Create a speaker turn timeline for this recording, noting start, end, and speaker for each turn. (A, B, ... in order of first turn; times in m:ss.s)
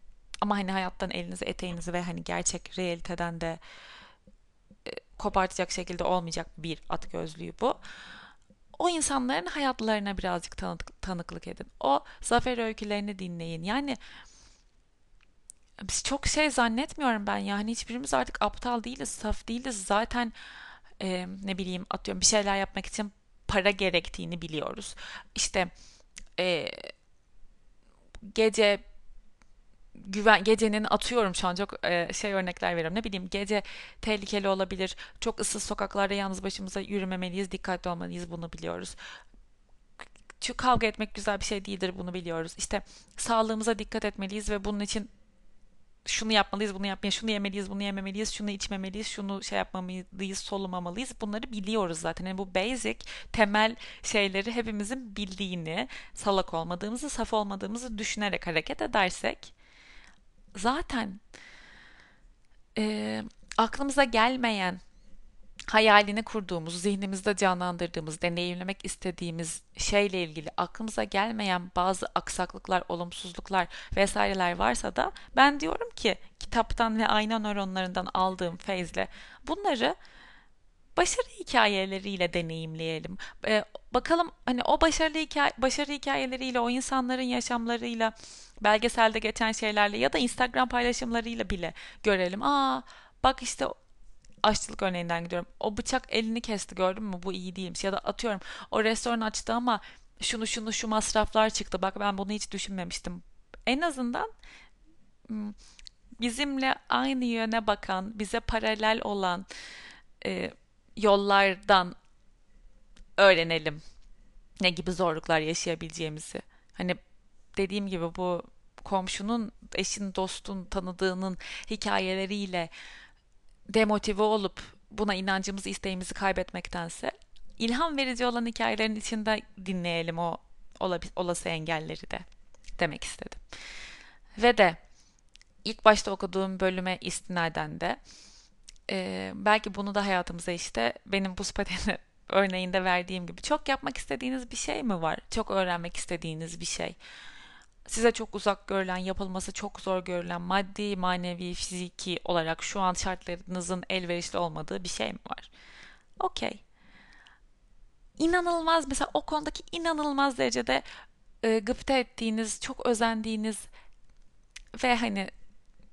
0:00.4-0:03.6 A
0:04.9-0:07.8 A
0:08.8-0:14.0 A
0:15.8-0:20.3 A
0:21.0-0:25.7 A
0:26.4-0:26.9 A
0:28.3-0:28.8 A
0:30.0-0:39.0 A
0:40.4-0:45.1 A
0:46.1-0:59.5 A
1:00.6-1:01.2 A
1:02.8-1:04.8 A
1:05.7-1:20.0 A
1:21.0-1:33.7 A
1:34.4-1:44.3 A
1:45.3-1:45.6 A
1:46.2-1:49.5 A
1:50.2-1:52.0 A
1:53.2-1:53.8 A
1:54.6-1:57.0 A
1:57.6-2:02.7 A
2:03.7-2:12.3 A
2:12.8-2:13.4 A
2:14.4-2:14.8 A
2:15.6-2:18.0 A
2:18.9-2:27.0 A
2:27.9-2:35.5 A
2:36.2-2:36.6 A
2:38.2-2:40.8 A
2:41.4-2:43.7 A
2:44.8-2:45.3 A